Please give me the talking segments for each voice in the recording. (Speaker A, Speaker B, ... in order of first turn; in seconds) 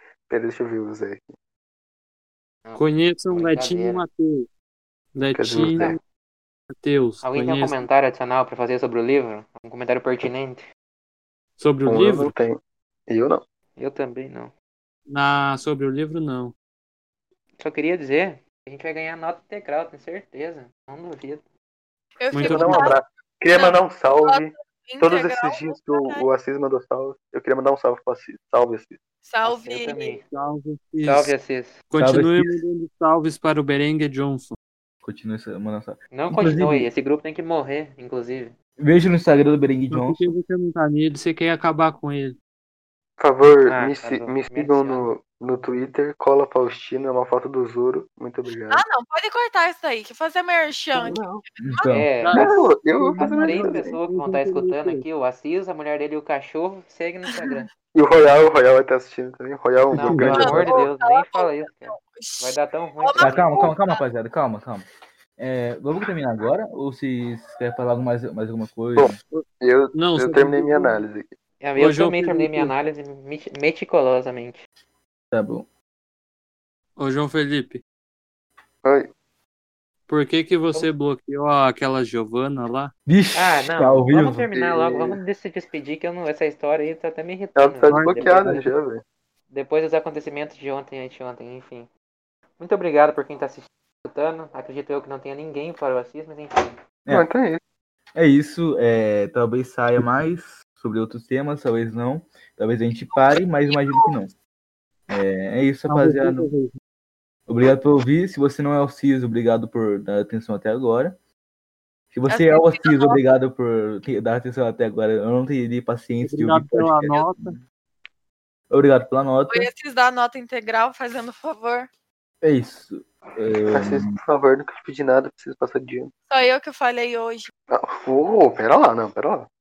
Speaker A: 0.3-1.3, 5.3-5.9, 11.8-13.4, 22.4-29.0, 43.2-48.8, 50.9-51.4, 52.3-54.0, 57.9-60.7, 69.0-71.3, 78.8-79.1, 84.5-85.2, 87.5-89.0, 97.1-97.6, 123.7-126.1, 127.7-129.5
Speaker B: 2.6-4.0, 7.2-10.6, 13.8-14.5, 17.6-21.4, 29.4-30.2, 31.0-31.8, 36.1-38.5, 43.6-45.0, 51.9-52.5, 53.2-57.7, 59.9-63.7, 71.6-74.6, 83.3-88.5, 89.5-91.9, 92.6-96.8
Speaker C: 2.8-4.5, 5.1-6.0, 6.8-7.8, 11.6-12.3, 15.1-16.5, 22.3-22.9, 30.2-31.3, 31.9-34.5, 39.9-42.4, 52.2-55.0, 60.0-60.7, 69.3-71.0, 71.8-72.7, 77.0-77.8, 80.1-82.9, 87.9-88.6, 105.9-106.7, 116.2-117.6
Speaker D: 22.2-23.0, 23.5-26.2, 29.2-30.1, 48.7-52.0, 57.3-57.6, 60.4-64.0, 103.7-104.1, 112.3-113.2, 119.5-121.9, 126.3-127.5
Speaker E: 31.9-32.6, 35.0-36.9, 38.8-40.3, 51.6-52.1, 63.2-64.8, 65.4-69.2, 75.3-75.7, 83.1-84.5, 98.1-104.3, 105.1-106.5, 107.5-111.1, 112.1-117.6, 118.7-119.7, 122.4-124.2